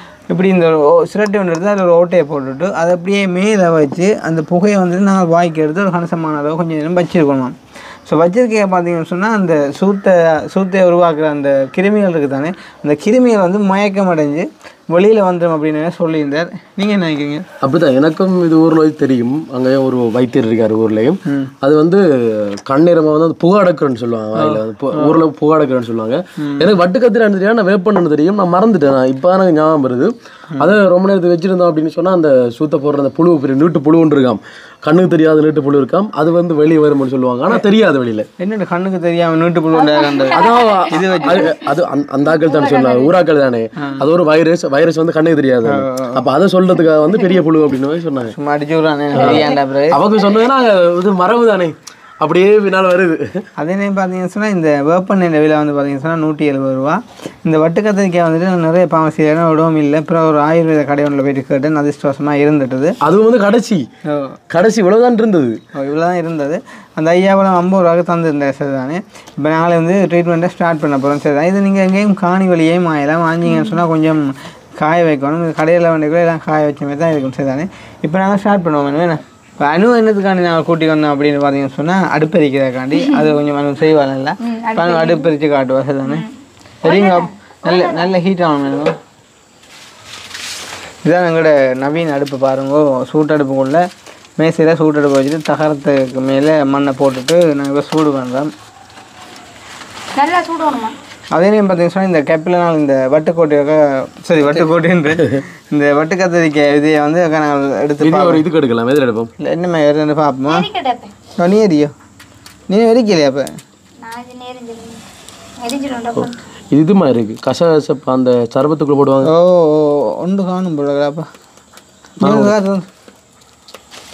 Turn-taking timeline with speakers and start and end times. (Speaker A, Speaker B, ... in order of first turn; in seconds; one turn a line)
Speaker A: 0.3-17.5
Speaker B: 17.6-38.3
Speaker A: 21.3-21.5
Speaker A: 24.4-25.2
Speaker A: 26.4-26.7
Speaker A: 38.4-40.4
Speaker C: 39.7-41.7
Speaker B: 40.3-48.4
Speaker A: 40.9-41.6
Speaker C: 42.3-43.2
Speaker A: 45.6-46.3
Speaker A: 48.3-50.0
Speaker C: 49.1-49.6
Speaker B: 49.1-53.5
Speaker A: 53.6-63.0
Speaker B: 63.0-63.9
Speaker A: 64.1-64.4
Speaker B: 64.5-65.6
Speaker A: 65.8-86.3
Speaker C: 73.5-73.8
Speaker C: 84.4-85.3
Speaker C: 86.0-86.3
Speaker C: 86.8-88.1
Speaker A: 86.8-89.0
Speaker A: 91.0-93.8
Speaker A: 94.4-98.5
Speaker C: 100.2-101.0
Speaker A: 101.3-108.4
Speaker B: 105.2-105.4
Speaker B: 108.0-109.3
Speaker A: 109.4-110.7
Speaker C: 110.5-111.1
Speaker A: 111.4-111.9
Speaker A: 112.7-113.5
Speaker C: 114.0-115.0
Speaker C: 115.6-116.4
Speaker B: 116.2-119.3
Speaker A: 119.2-121.3
Speaker B: 122.2-122.5
Speaker A: 122.2-122.9